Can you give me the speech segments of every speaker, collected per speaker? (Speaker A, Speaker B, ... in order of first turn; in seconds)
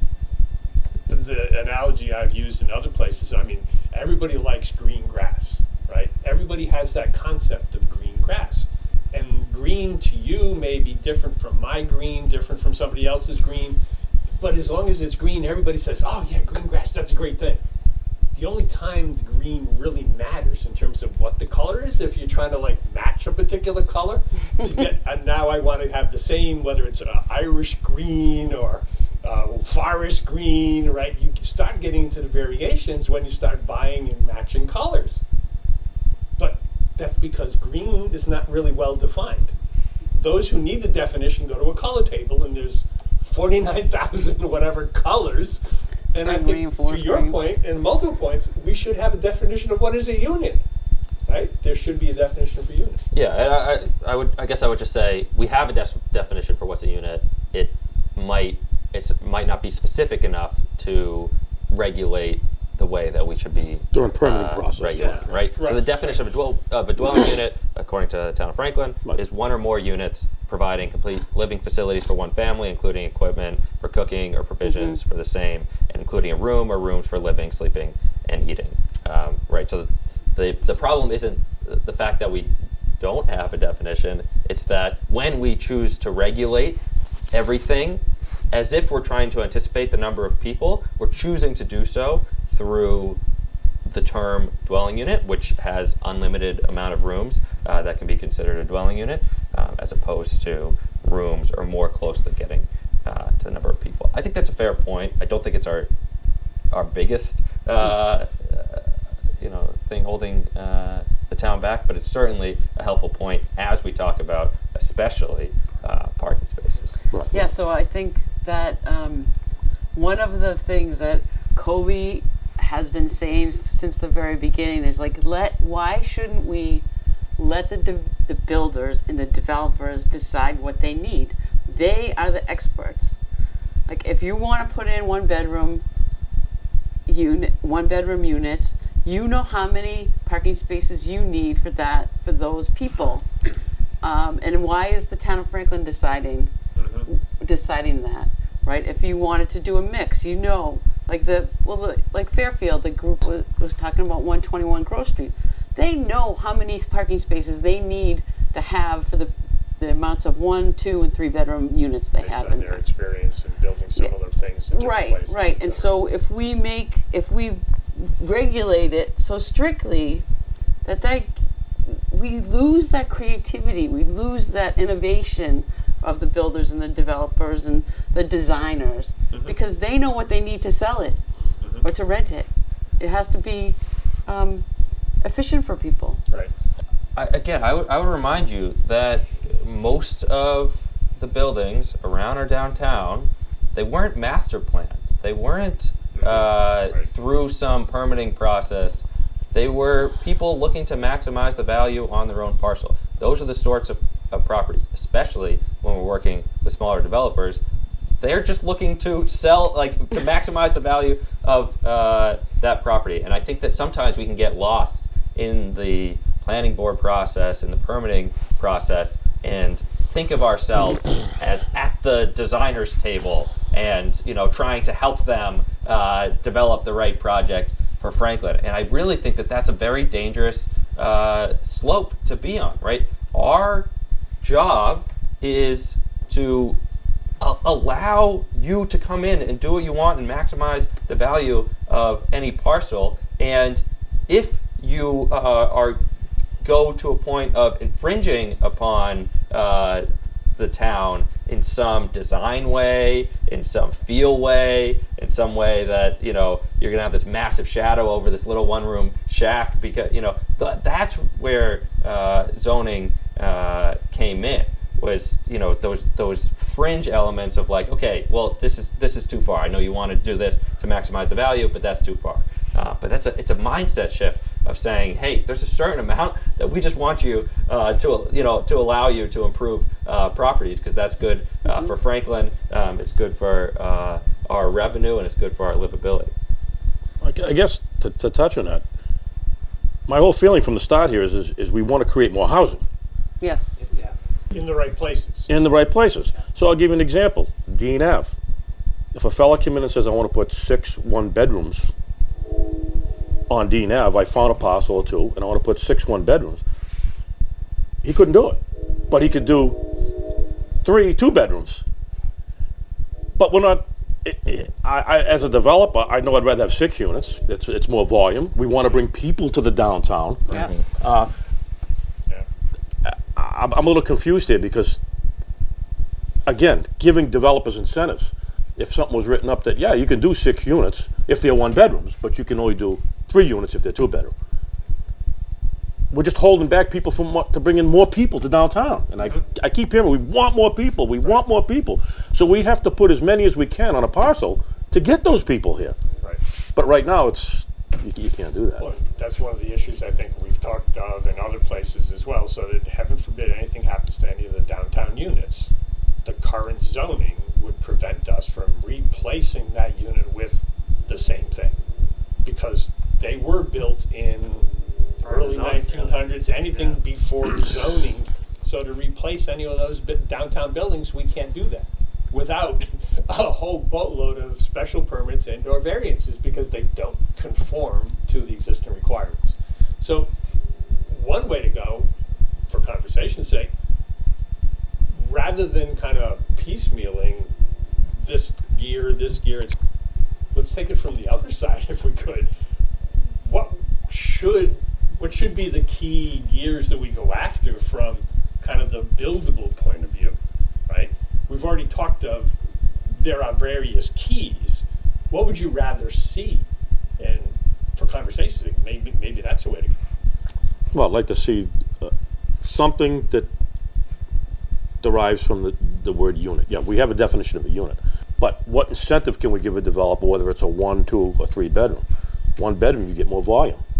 Speaker A: 1.1-13.8, 14.3-17.6, 18.3-35.2, 36.4-39.5, 40.1-45.6, 46.1-50.6, 51.3-53.0, 65.5-65.9, 146.8-147.1, 162.2-165.9, 196.1-197.1, 294.5-295.5, 348.8-355.7, 356.2-361.8, 362.4-364.7, 365.2-380.3, 381.1-382.1, 382.7-383.7, 385.1-387.5, 388.1-389.8, 390.5-392.5, 393.4-400.4, 400.9-406.6, 407.2-409.9
Speaker B: 46.1-47.4, 74.6-75.0, 117.3-119.3, 119.9-126.8, 127.4-133.2, 133.8-135.8, 137.1-143.3, 144.0-146.5, 147.1-162.8, 164.7-170.2, 170.8-181.2, 181.8-182.5, 183.0-184.6, 185.2-186.2, 281.6-281.9, 293.4-293.7
Speaker C: 53.1-86.8, 87.3-93.2, 93.8-105.9, 106.7-117.0, 187.2-199.0, 199.5-207.6, 208.2-233.9, 234.4-236.8, 237.4-246.0, 246.6-286.3
Speaker D: 63.9-65.3, 117.1-117.5, 287.2-288.8, 290.1-292.8, 295.5-298.4, 299.1-301.9, 303.5-306.6, 308.0-310.0, 310.8-311.8, 313.3-321.3, 323.0-325.0, 326.4-334.3, 336.1-346.0, 346.7-348.9, 410.9-413.5, 415.0-422.0, 422.6-423.8
Speaker E: 64.9-65.2, 293.8-294.2, 365.2-367.0